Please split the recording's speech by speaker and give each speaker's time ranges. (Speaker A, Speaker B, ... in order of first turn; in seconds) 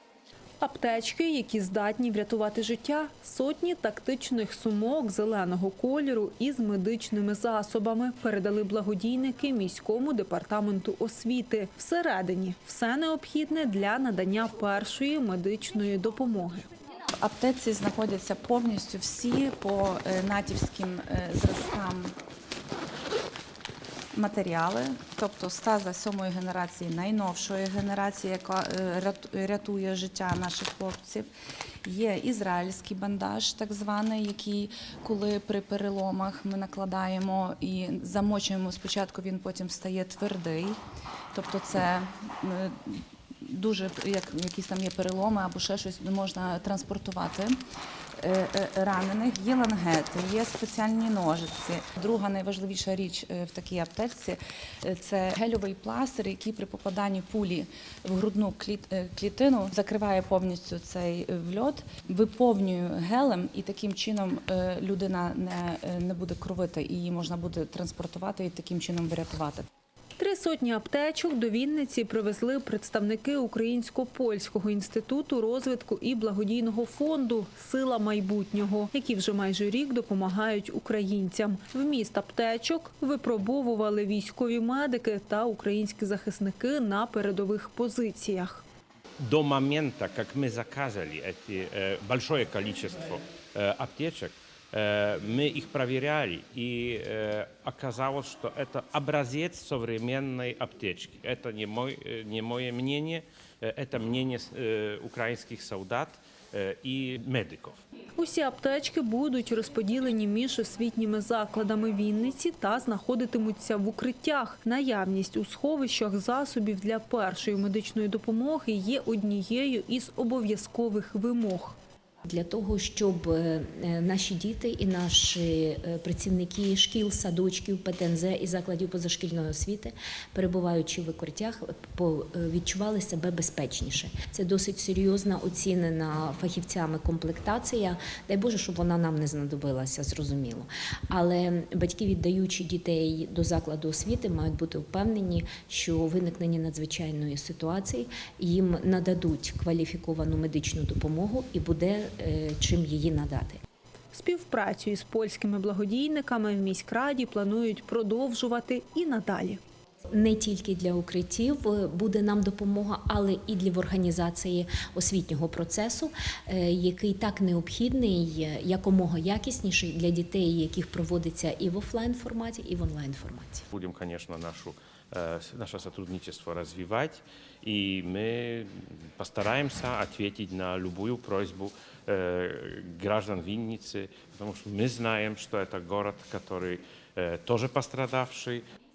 Speaker A: 0.6-16.7, 70.2-88.6, 108.2-121.8, 154.1-159.6
Speaker B: 17.2-22.1, 24.1-31.3, 31.8-40.8, 41.3-47.6, 48.2-69.7
Speaker C: 89.2-107.8, 173.7-188.6
Speaker D: 122.2-153.6, 160.1-173.7